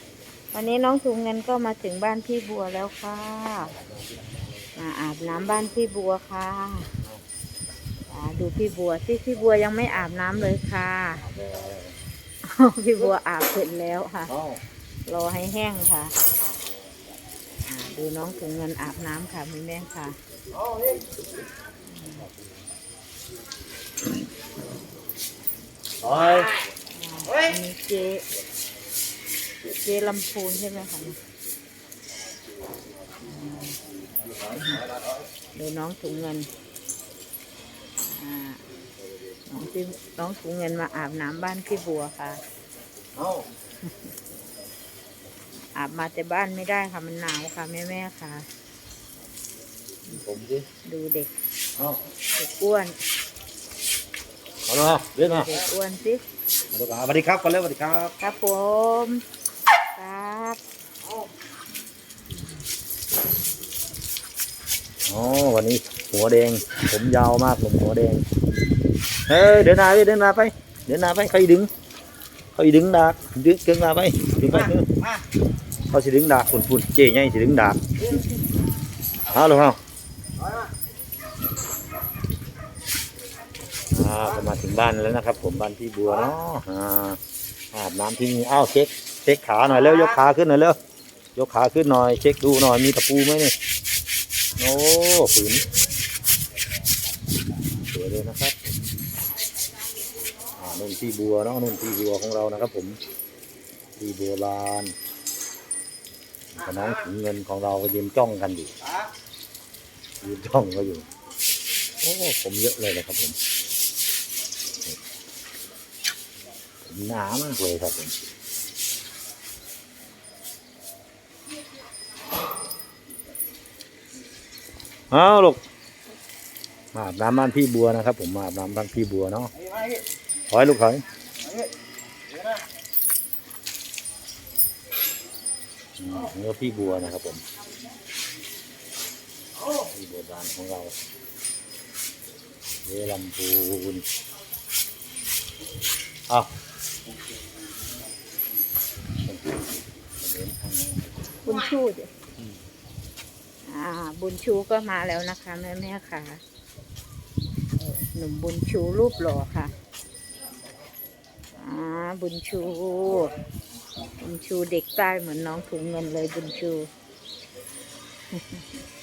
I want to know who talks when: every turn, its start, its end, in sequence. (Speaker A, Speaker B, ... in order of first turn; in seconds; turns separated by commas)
Speaker A: 0.5-3.7, Speaker B: 3.8-4.3, Speaker A: 4.8-6.9, Speaker A: 8.1-11.2, Speaker B: 11.2-12.0, Speaker A: 12.5-14.3, Speaker B: 14.3-14.6, Speaker A: 15.1-16.1, Speaker A: 17.6-20.2, Speaker A: 21.9-22.3, Speaker B: 26.0-26.5, Speaker A: 26.9-28.2, Speaker A: 29.8-31.2, Speaker A: 33.2-33.8, Speaker A: 34.5-34.9, Speaker A: 35.5-36.5, Speaker A: 38.0-38.6, Speaker A: 39.5-42.4, Speaker B: 43.2-43.5, Speaker A: 45.8-48.5, Speaker B: 50.0-50.7, Speaker A: 50.9-51.3, Speaker B: 51.8-52.0, Speaker A: 52.4-53.0, Speaker B: 54.7-55.5, Speaker A: 55.3-56.2, Speaker B: 56.7-58.1, Speaker A: 58.2-59.2, Speaker A: 60.0-60.6, Speaker B: 65.1-68.2, Speaker B: 69.3-71.7, Speaker B: 72.6-75.1, Speaker B: 75.9-77.8, Speaker B: 79.3-79.8, Speaker B: 83.9-87.2, Speaker B: 87.7-90.8, Speaker B: 91.3-93.5, Speaker B: 94.6-95.7, Speaker B: 97.9-98.6, Speaker B: 100.6-103.0, Speaker B: 104.0-104.9, Speaker B: 106.5-108.8, Speaker B: 110.2-111.1, Speaker B: 112.0-113.4, Speaker B: 116.8-118.3, Speaker B: 125.1-125.6, Speaker B: 126.9-129.5, Speaker B: 130.5-131.1, Speaker B: 136.0-137.4, Speaker B: 139.7-140.9, Speaker B: 142.8-144.1, Speaker B: 149.2-151.1, Speaker A: 151.4-152.1, Speaker A: 153.7-156.4, Speaker A: 157.8-159.7, Speaker A: 161.6-163.3, Speaker A: 164.2-166.9, Speaker A: 168.3-168.7